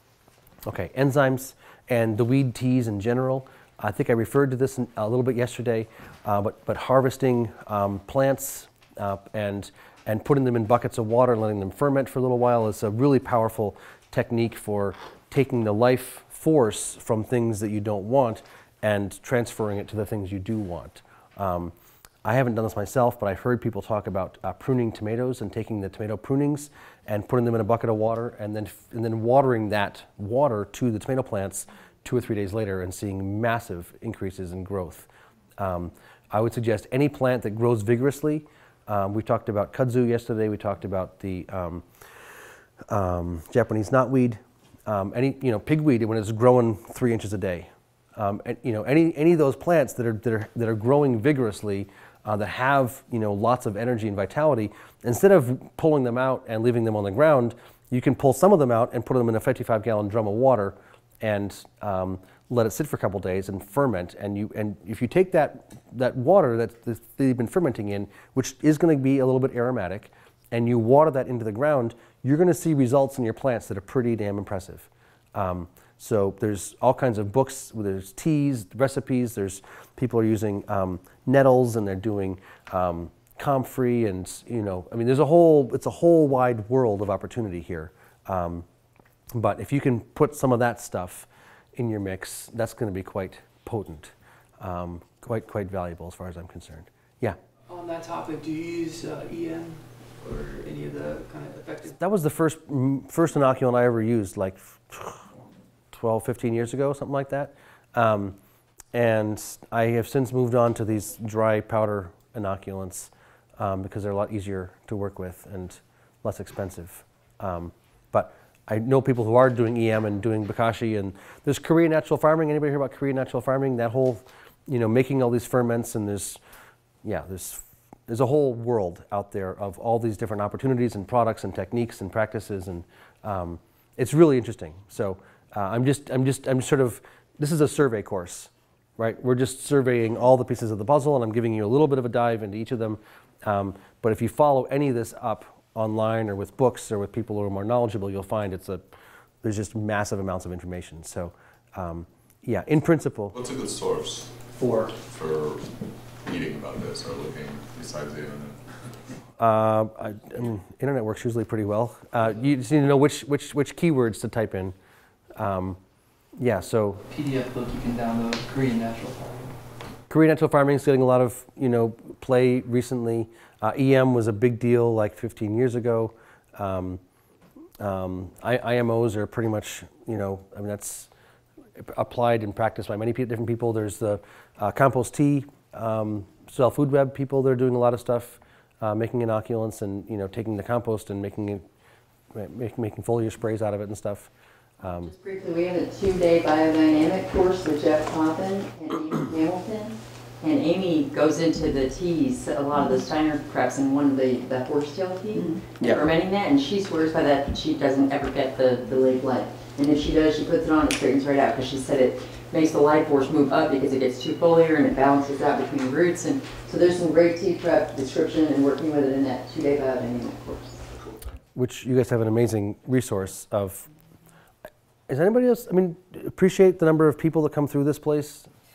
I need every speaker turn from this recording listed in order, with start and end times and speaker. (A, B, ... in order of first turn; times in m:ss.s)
0:00.7-0:41.8 A
0:42.9-1:28.6 A
1:29.3-1:37.4 A
1:37.7-1:42.0 B
1:41.9-1:45.3 A
1:45.9-1:48.4 A
1:48.9-2:06.4 A
2:07.0-2:28.8 A
2:29.4-2:33.3 A
2:33.3-2:35.7 C
2:36.2-2:38.6 C
2:39.4-2:44.8 A
2:45.4-2:45.8 A
2:46.4-2:47.0 A
2:47.1-2:49.5 D
2:50.1-2:57.0 A
2:57.8-3:01.1 A
3:01.8-3:11.7 A
3:12.3-3:15.1 A
3:14.8-3:40.9 E
3:25.4-3:25.6 D
3:25.8-3:26.1 A
3:41.6-3:43.9 A
3:45.1-3:48.5 A